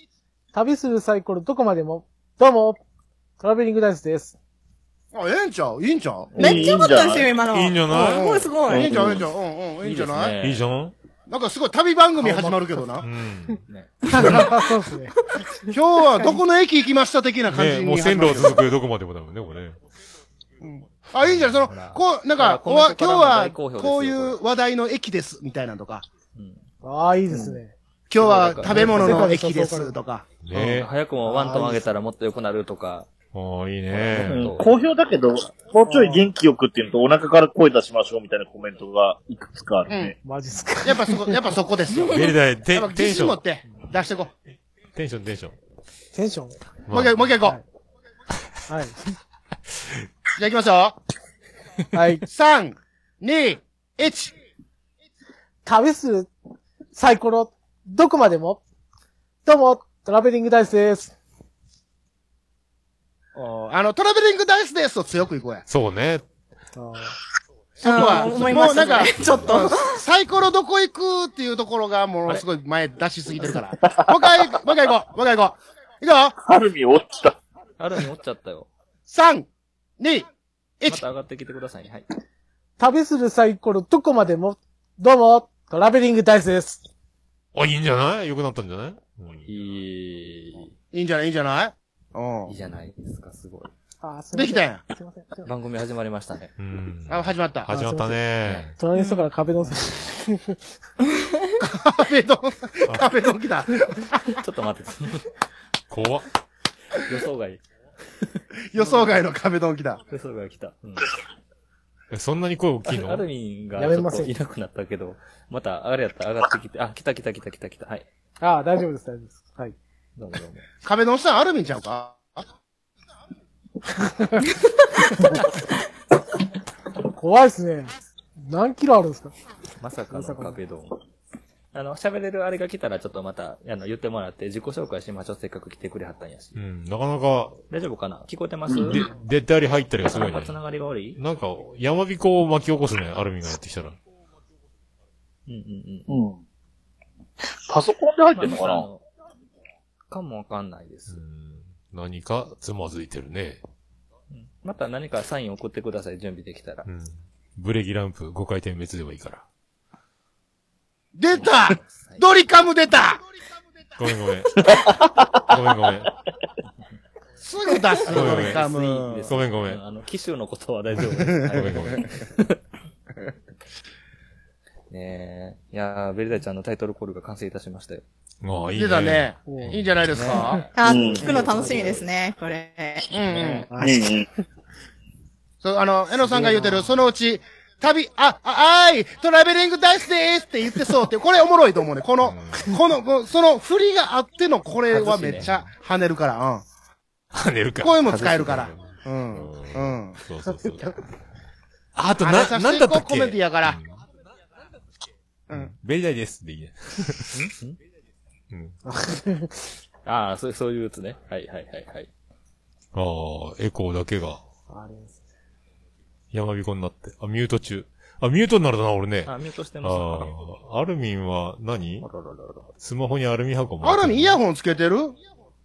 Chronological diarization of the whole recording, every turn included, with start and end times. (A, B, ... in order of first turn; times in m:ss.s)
0:00.5-0:02.8 A
0:03.4-0:04.4 A
0:05.1-0:06.4 B
0:06.3-0:06.8 C
0:06.4-0:09.1 D
0:06.4-0:07.4 E
0:07.5-0:08.3 F
0:07.9-0:10.4 B
0:08.7-0:09.2 E
0:09.8-0:10.6 C
0:10.4-0:10.9 F
0:11.3-0:13.1 B
0:12.2-0:12.9 A
0:13.0-0:13.6 F
0:13.7-0:14.4 C
0:14.1-0:15.2 A
0:14.1-0:14.5 B
0:15.7-0:18.7 B
0:15.7-0:16.4 A
0:17.5-0:19.8 F
0:20.6-0:26.1 B
0:21.6-0:24.4 C
0:26.3-0:26.6 C
0:26.8-0:27.7 A
0:27.3-0:27.6 C
0:28.1-0:30.3 B
0:28.2-0:29.3 C
0:28.6-0:30.0 A
0:30.4-0:30.9 F
0:30.5-0:33.1 C
0:31.2-0:31.8 A
0:33.3-0:34.5 F
0:33.9-0:34.8 C
0:34.2-0:40.1 E
0:35.8-0:36.3 A
0:39.9-0:40.1 B
0:40.2-0:41.6 A
0:40.8-0:44.3 B
0:42.0-0:43.4 F
0:44.9-0:45.6 F
0:46.1-0:46.6 A
0:46.9-0:47.3 F
0:46.9-0:47.6 B
0:48.7-0:49.0 A
0:50.4-0:51.0 B
0:51.9-0:52.2 A
0:52.3-0:54.3 B
0:55.6-0:56.3 A
0:56.9-0:58.6 A
0:59.4-1:01.1 A
1:03.3-1:05.6 B
1:05.7-1:06.3 F
1:06.8-1:07.2 A
1:07.8-1:16.4 B
1:07.8-1:10.0 D
1:09.2-1:09.5 F
1:13.8-1:14.1 E
1:16.4-1:17.4 E
1:17.8-1:18.7 C
1:19.1-1:19.5 B
1:20.0-1:20.3 B
1:20.8-1:21.0 B
1:20.9-1:22.1 C
1:22.8-1:26.8 A
1:27.5-1:29.5 F
1:29.4-1:30.7 C
1:30.9-1:32.6 B
1:32.5-1:33.7 C
1:34.0-1:35.5 A
1:34.3-1:34.8 B
1:35.4-1:36.5 C
1:36.6-1:38.8 F
1:37.1-1:37.7 B
1:37.7-1:40.6 A
1:41.6-1:44.2 B
1:44.3-1:45.3 C
1:45.9-1:46.2 F
1:47.0-1:47.6 C
1:48.7-1:50.0 B
1:50.1-1:51.1 C
1:52.1-1:53.2 F
1:52.8-1:58.1 C
1:53.8-1:54.3 A
1:58.4-1:59.8 A
2:00.2-2:00.7 C
2:00.8-2:02.4 B
2:04.0-2:04.5 A
2:07.0-2:09.3 A
2:09.8-2:11.0 C
2:10.1-2:10.6 A
2:11.7-2:16.6 C
2:16.6-2:17.6 F
2:17.7-2:19.0 C
2:18.8-2:20.6 F
2:20.1-2:21.2 C
2:21.2-2:24.0 F
2:25.5-2:26.1 C
2:26.1-2:26.4 E
2:27.7-2:28.9 E
2:28.3-2:29.1 C
2:30.1-2:31.2 C
2:31.1-2:33.6 F
2:34.3-2:36.9 C
2:36.8-2:39.4 F
2:41.1-2:43.2 B
2:41.3-2:42.2 C
2:44.0-2:46.1 F
2:44.6-2:45.4 E
2:47.4-2:49.4 B
2:48.0-2:48.6 F
2:48.1-2:52.6 C
2:49.3-2:49.8 F
2:51.0-2:52.0 F
2:54.9-2:58.0 C
2:58.4-3:00.4 F
2:58.8-3:00.7 B
2:59.4-2:59.7 A
3:00.1-3:00.7 C
3:00.7-3:03.1 D
3:00.8-3:01.4 E
3:01.2-3:02.0 A
3:03.1-3:03.7 B
3:03.3-3:04.1 A
3:03.8-3:04.3 E
3:05.6-3:16.6 B
3:06.2-3:06.9 A
3:12.2-3:12.7 F
3:14.9-3:15.5 C
3:17.3-3:21.0 F
3:17.8-3:20.2 B
3:22.0-3:24.0 F
3:22.2-3:23.8 B
3:25.5-3:27.5 F
3:27.3-3:27.8 C
3:28.5-3:28.8 F
3:28.8-3:29.5 A
3:30.0-3:32.1 C
3:32.9-3:34.4 F
3:34.7-3:35.2 A
3:36.3-3:42.1 F
3:39.2-3:40.4 C
3:42.0-3:42.7 C
3:42.8-3:44.4 F
3:43.8-3:45.2 B